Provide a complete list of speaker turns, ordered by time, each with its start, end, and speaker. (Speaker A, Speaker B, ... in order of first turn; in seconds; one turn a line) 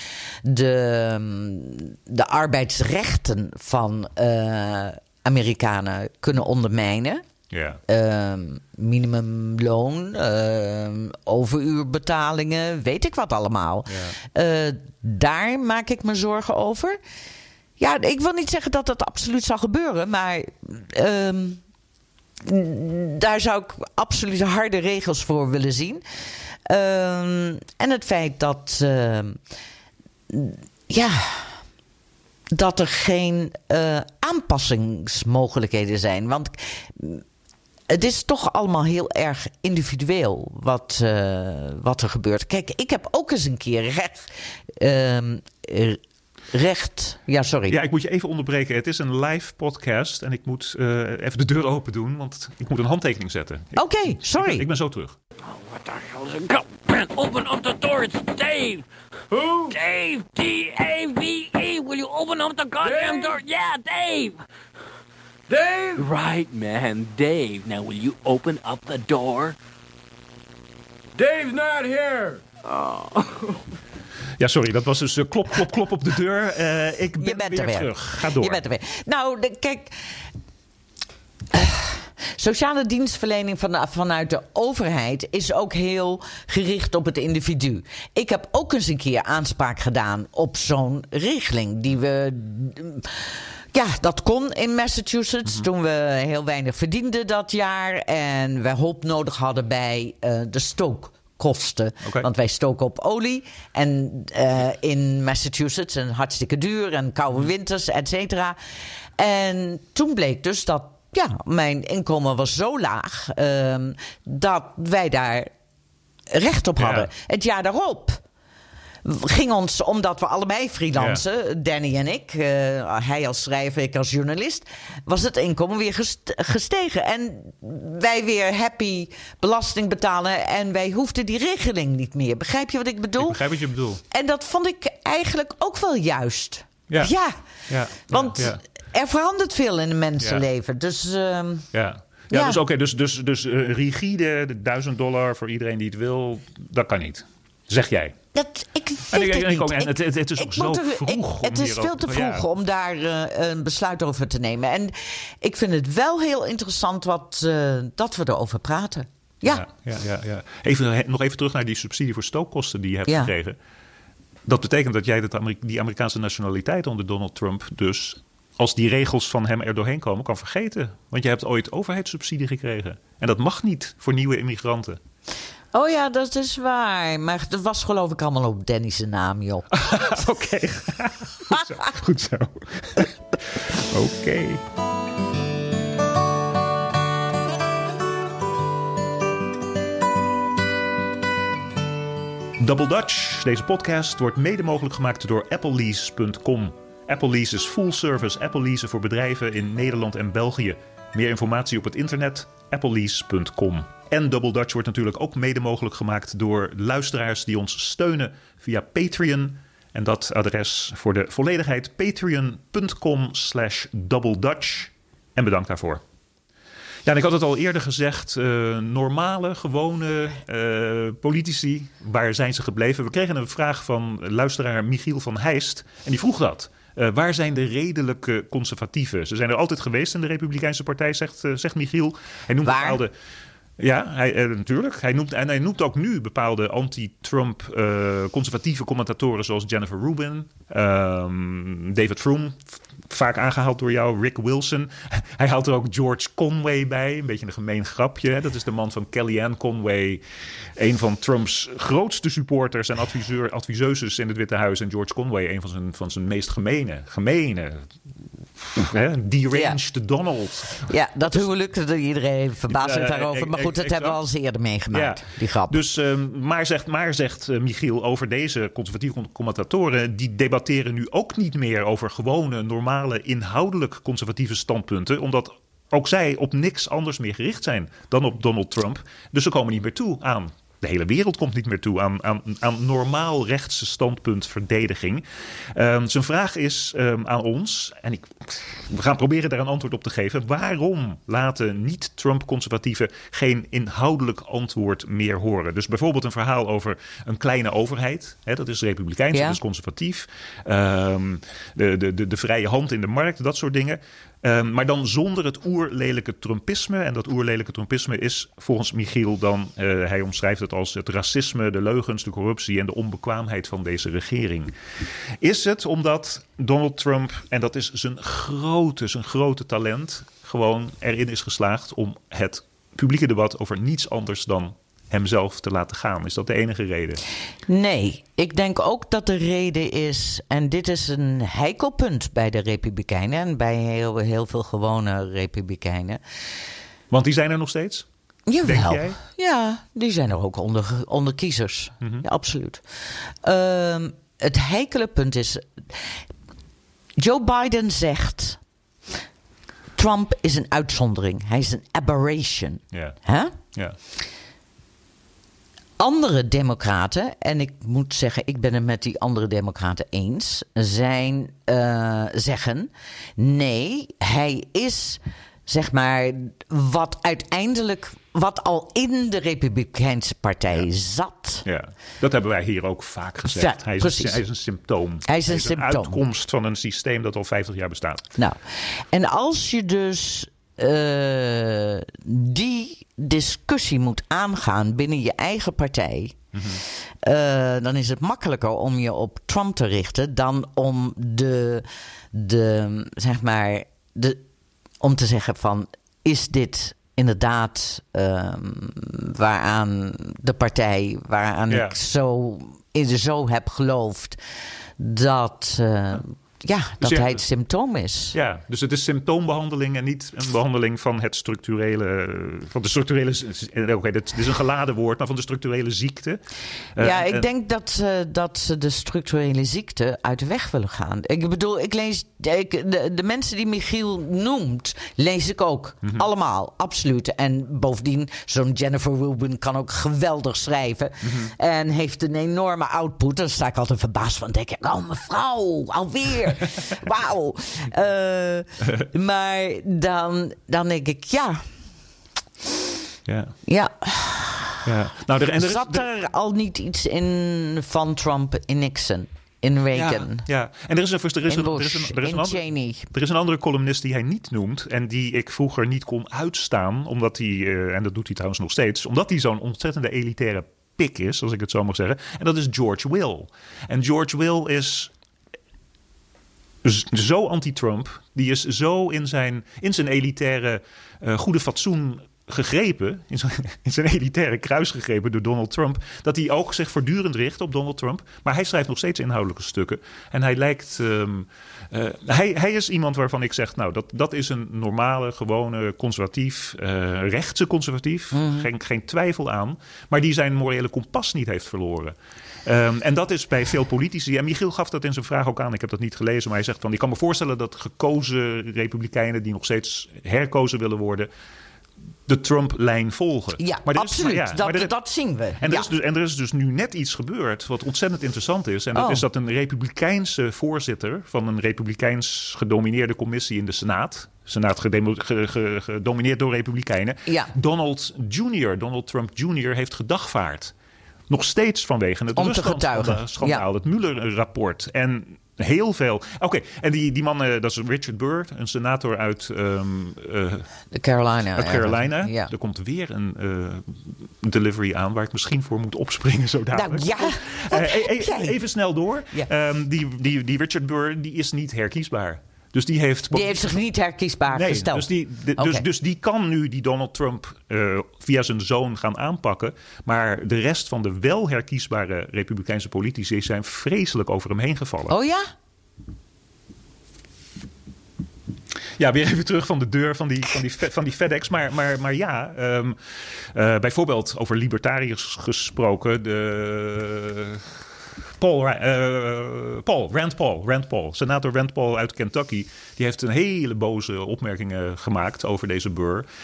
Speaker A: 0.4-7.2
Speaker B: 7.5-7.8
Speaker A: 7.9-17.0
Speaker B: 13.9-14.1
Speaker A: 17.8-21.6
Speaker A: 22.4-26.0
Speaker A: 26.7-29.4
Speaker A: 30.3-31.6
Speaker A: 32.5-37.2
Speaker A: 37.9-46.0
Speaker A: 46.5-47.8
Speaker B: 47.7-55.1
Speaker A: 53.8-54.7
Speaker C: 55.5-58.9
Speaker D: 59.3-59.8
Speaker C: 59.7-64.4
Speaker D: 62.8-63.4
Speaker D: 65.5-66.1
Speaker C: 66.0-69.5
Speaker D: 71.2-72.4
Speaker C: 72.7-73.2
Speaker B: 74.4-78.6
Speaker A: 77.2-80.0
Speaker A: 81.5-108.6
Speaker A: 109.2-115.5
Speaker A: 116.3-118.2
Speaker B: 116.8-117.1
Speaker A: 119.0-133.4
Speaker B: 121.0-121.2
Speaker B: 133.2-134.0
Speaker A: 134.1-137.3
Speaker B: 137.7-138.6
Speaker A: 138.0-141.7
Speaker B: 141.7-148.2
Speaker A: 142.3-142.6
Speaker A: 148.3-159.7
Speaker B: 149.1-152.5
Speaker B: 159.4-163.6
Speaker B: 164.5-175.0
Speaker A: 175.7-180.1
Speaker B: 179.7-184.6
Speaker B: 192.6-216.0
Speaker B: 217.1-233.1
Speaker A: 232.7-233.0
Speaker B: 233.8-250.2
Speaker B: 250.8-257.9
Speaker B: 258.6-261.5
Speaker A: 259.5-259.8
Speaker A: 260.9-265.8
Speaker B: 262.7-264.2
Speaker B: 264.9-314.7
Speaker A: 299.3-299.6
Speaker B: 315.4-327.2
Speaker A: 327.7-336.2
Speaker B: 337.1-338.1
Speaker A: 338.5-346.1
Speaker B: 338.6-339.2
Speaker A: 347.2-348.6
Speaker A: 349.9-353.6
Speaker B: 352.9-353.2
Speaker A: 356.0-371.6
Speaker B: 371.6-378.3
Speaker A: 373.5-374.4
Speaker A: 375.2-376.2
Speaker A: 378.4-394.4
Speaker B: 386.5-386.8
Speaker A: 395.0-404.4
Speaker B: 401.7-402.0
Speaker A: 405.0-408.4
Speaker B: 407.0-407.4
Speaker B: 408.3-416.4
Speaker B: 416.9-417.5
Speaker A: 417.0-441.7
Speaker B: 431.2-431.5
Speaker B: 443.3-443.5
Speaker A: 443.7-444.9
Speaker B: 444.9-446.1
Speaker A: 445.6-450.5
Speaker B: 449.9-465.1
Speaker A: 451.5-453.1
Speaker B: 466.8-501.3
Speaker A: 488.3-488.7
Speaker B: 502.3-504.9
Speaker A: 503.6-505.9
Speaker B: 505.6-520.7
Speaker A: 508.9-509.2
Speaker A: 517.3-517.5
Speaker B: 521.3-530.7
Speaker A: 522.3-523.6
Speaker A: 530.9-532.5
Speaker B: 531.5-543.8
Speaker A: 536.7-538.6
Speaker A: 543.3-545.9
Speaker B: 544.5-555.1
Speaker A: 555.1-555.5
Speaker B: 559.0-567.8
Speaker B: 568.4-576.3